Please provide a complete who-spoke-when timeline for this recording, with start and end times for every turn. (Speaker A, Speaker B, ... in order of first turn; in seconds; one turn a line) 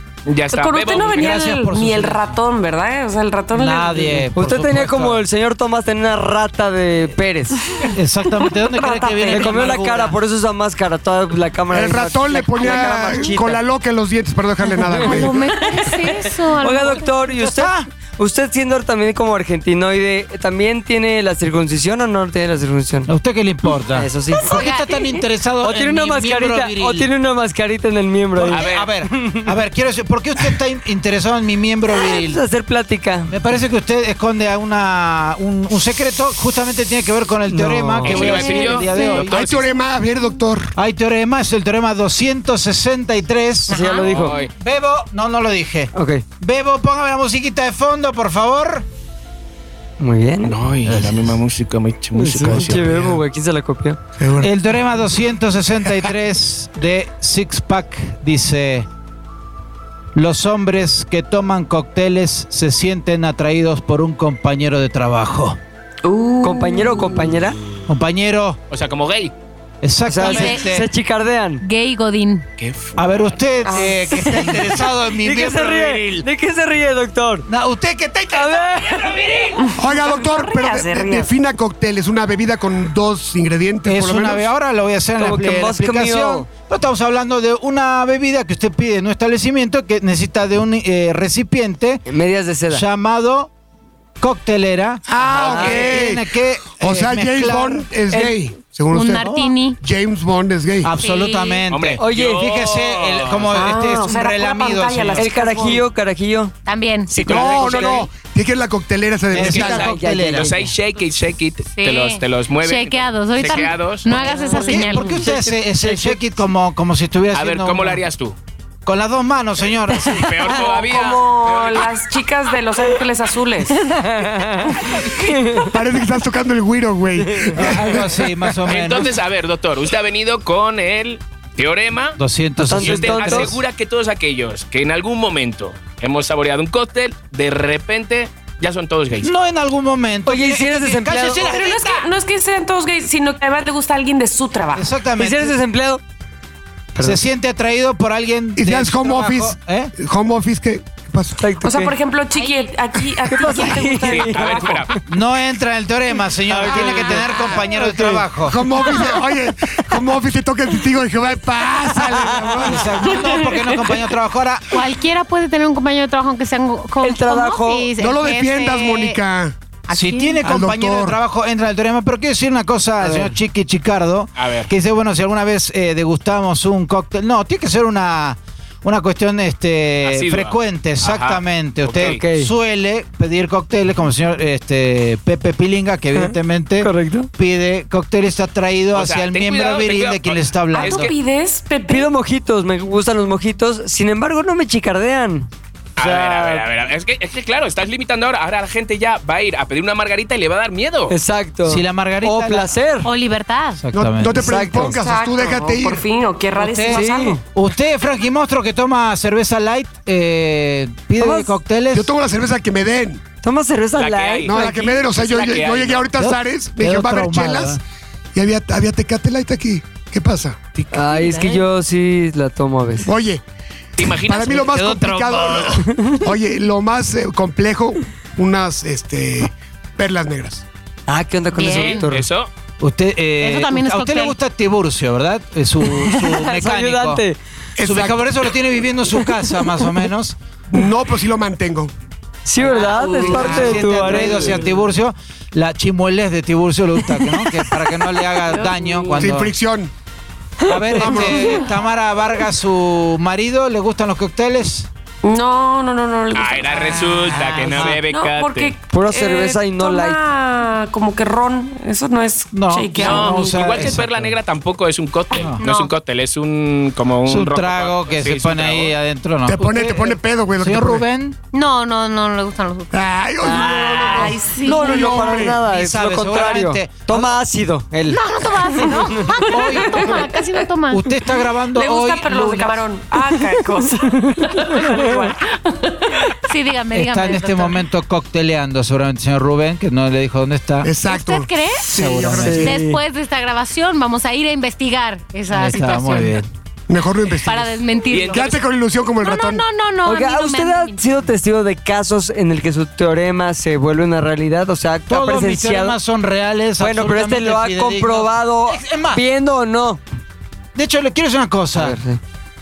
Speaker A: 0.3-1.4
Speaker B: 0.5-4.3
Speaker C: 1.1-2.4
Speaker C: 3.5-5.2
Speaker D: 4.3-7.6
Speaker B: 7.6-9.8
Speaker C: 8.0-10.2
Speaker D: 9.3-13.6
Speaker E: 11.7-15.4
Speaker D: 14.7-15.4
Speaker F: 15.0-17.1
Speaker D: 15.9-23.1
Speaker C: 17.2-17.9
Speaker C: 23.1-27.1
Speaker D: 23.9-24.7
Speaker F: 24.5-24.8
Speaker D: 25.6-29.6
Speaker C: 28.4-32.4
Speaker A: 28.5-28.9
Speaker D: 31.9-33.3
Speaker C: 33.3-39.4
Speaker D: 37.5-38.5
Speaker A: 38.0-39.7
Speaker F: 38.4-39.1
Speaker E: 39.2-40.8
Speaker C: 40.8-43.9
Speaker F: 43.7-44.1
Speaker D: 43.7-44.4
Speaker A: 44.1-44.5
Speaker C: 44.5-48.9
Speaker D: 45.9-46.2
Speaker D: 50.0-51.1
Speaker A: 50.4-53.0
Speaker D: 52.1-54.0
Speaker E: 52.5-53.2
Speaker E: 54.2-54.6
Speaker C: 54.4-58.9
Speaker C: 60.1-65.6
Speaker B: 66.0-67.3
Speaker D: 66.4-67.6
Speaker C: 67.9-68.6
Speaker A: 68.7-69.3
Speaker C: 69.8-70.9
Speaker D: 70.1-71.6
Speaker F: 70.2-70.7
Speaker F: 71.6-72.5
Speaker A: 72.6-73.0
Speaker C: 73.0-76.2
Speaker B: 73.7-74.7
Speaker D: 74.2-74.5
Speaker D: 75.1-77.5
Speaker C: 77.5-79.4
Speaker D: 78.3-79.6
Speaker B: 79.6-81.3
Speaker E: 79.8-84.5
Speaker C: 83.8-92.0
Speaker D: 85.2-86.5
Speaker D: 92.1-92.8
Speaker C: 92.7-93.5
Speaker C: 94.2-97.8
Speaker E: 95.1-100.9
Speaker D: 95.4-96.0
Speaker F: 98.9-99.8
Speaker C: 99.2-99.5
Speaker C: 100.8-105.3
Speaker F: 101.0-101.6
Speaker A: 101.7-103.7
Speaker D: 102.0-102.5
Speaker B: 103.5-105.9
Speaker D: 105.2-106.5
Speaker F: 106.7-107.1
Speaker E: 107.1-109.9
Speaker A: 107.1-108.1
Speaker D: 107.3-108.0
Speaker C: 109.3-110.5
Speaker A: 109.4-114.3
Speaker D: 109.4-110.7
Speaker F: 111.8-115.2
Speaker B: 114.3-115.2
Speaker C: 114.5-118.0
Speaker D: 114.9-116.2
Speaker A: 117.3-118.3
Speaker C: 118.9-120.5
Speaker A: 119.9-122.0
Speaker D: 120.2-120.8
Speaker B: 120.5-123.8
Speaker D: 123.8-125.8
Speaker E: 125.7-128.3
Speaker D: 127.2-127.9
Speaker C: 127.5-129.1
Speaker A: 128.7-132.2
Speaker C: 132.2-133.6
Speaker D: 132.7-133.6
Speaker A: 132.7-139.3
Speaker C: 139.2-142.1
Speaker D: 140.3-141.5
Speaker B: 141.4-144.9
Speaker C: 144.7-145.6
Speaker D: 145.2-146.0
Speaker C: 147.0-149.9
Speaker E: 148.6-151.5
Speaker D: 151.4-151.9
Speaker B: 151.6-154.9
Speaker F: 152.3-152.7
Speaker D: 153.2-155.0
Speaker A: 154.0-155.0
Speaker C: 155.1-158.6
Speaker D: 156.5-158.2
Speaker E: 157.9-163.2
Speaker D: 162.0-162.7
Speaker C: 162.6-164.7
Speaker F: 164.7-169.2
Speaker D: 167.0-167.9
Speaker E: 168.0-169.6
Speaker F: 169.9-170.4
Speaker C: 169.9-191.1
Speaker E: 170.4-171.2
Speaker D: 173.0-173.3
Speaker A: 174.4-174.7
Speaker A: 180.1-182.2
Speaker D: 182.0-182.5
Speaker D: 186.2-187.3
Speaker A: 188.9-191.1
Speaker B: 190.7-192.1
Speaker D: 191.9-196.7
Speaker A: 196.0-201.2
Speaker D: 201.1-203.1
Speaker C: 201.7-202.7
Speaker F: 203.1-203.8
Speaker C: 203.8-204.7
Speaker E: 203.9-206.1
Speaker D: 204.3-205.0
Speaker B: 204.7-207.4
Speaker C: 206.5-212.1
Speaker D: 206.9-207.4
Speaker D: 211.2-211.5
Speaker E: 211.9-213.2
Speaker D: 213.4-214.6
Speaker A: 214.0-216.1
Speaker E: 214.5-217.8
Speaker C: 216.2-217.8
Speaker E: 218.3-220.9
Speaker D: 220.9-223.1
Speaker F: 221.1-221.6
Speaker E: 223.0-223.4
Speaker A: 224.0-224.7
Speaker E: 224.0-230.6
Speaker C: 224.7-225.8
Speaker D: 231.1-232.3
Speaker F: 231.5-232.1
Speaker A: 231.7-232.5
Speaker C: 232.8-237.2
Speaker F: 233.4-234.4
Speaker D: 235.8-237.4
Speaker E: 237.8-238.5
Speaker C: 237.8-240.4
Speaker D: 239.1-240.0
Speaker E: 240.7-241.9
Speaker D: 242.5-244.7
Speaker B: 242.7-243.7
Speaker C: 243.2-249.5
Speaker E: 243.4-243.8
Speaker D: 247.0-248.3
Speaker B: 248.5-249.3
Speaker E: 249.2-249.9
Speaker D: 250.7-251.3
Speaker C: 250.7-254.9
Speaker E: 251.0-251.6
Speaker B: 251.2-251.7
Speaker B: 255.2-263.8
Speaker A: 256.3-258.8
Speaker C: 257.3-258.0
Speaker D: 258.9-260.2
Speaker C: 262.5-264.4
Speaker A: 263.0-268.9
Speaker C: 265.3-265.6
Speaker F: 265.6-265.9
Speaker C: 267.3-271.4
Speaker E: 269.4-271.1
Speaker F: 271.5-272.9
Speaker E: 272.9-275.6
Speaker B: 273.4-275.5
Speaker D: 274.6-278.2
Speaker C: 275.6-277.4
Speaker F: 278.1-281.1
Speaker D: 278.8-279.3
Speaker B: 279.2-280.2
Speaker C: 279.5-280.3
Speaker C: 280.9-282.8
Speaker B: 281.7-286.3
Speaker D: 284.0-285.3
Speaker F: 286.4-287.8
Speaker C: 286.9-290.9
Speaker E: 290.8-292.8
Speaker F: 291.1-291.9
Speaker C: 291.9-292.8
Speaker D: 292.3-293.0
Speaker F: 292.5-296.4
Speaker C: 295.5-296.5
Speaker E: 296.9-299.6
Speaker F: 297.4-298.6
Speaker A: 298.1-298.6
Speaker F: 299.2-301.1
Speaker D: 300.1-306.0
Speaker C: 305.1-309.2
Speaker D: 306.8-310.0
Speaker C: 310.8-312.0
Speaker D: 311.7-312.2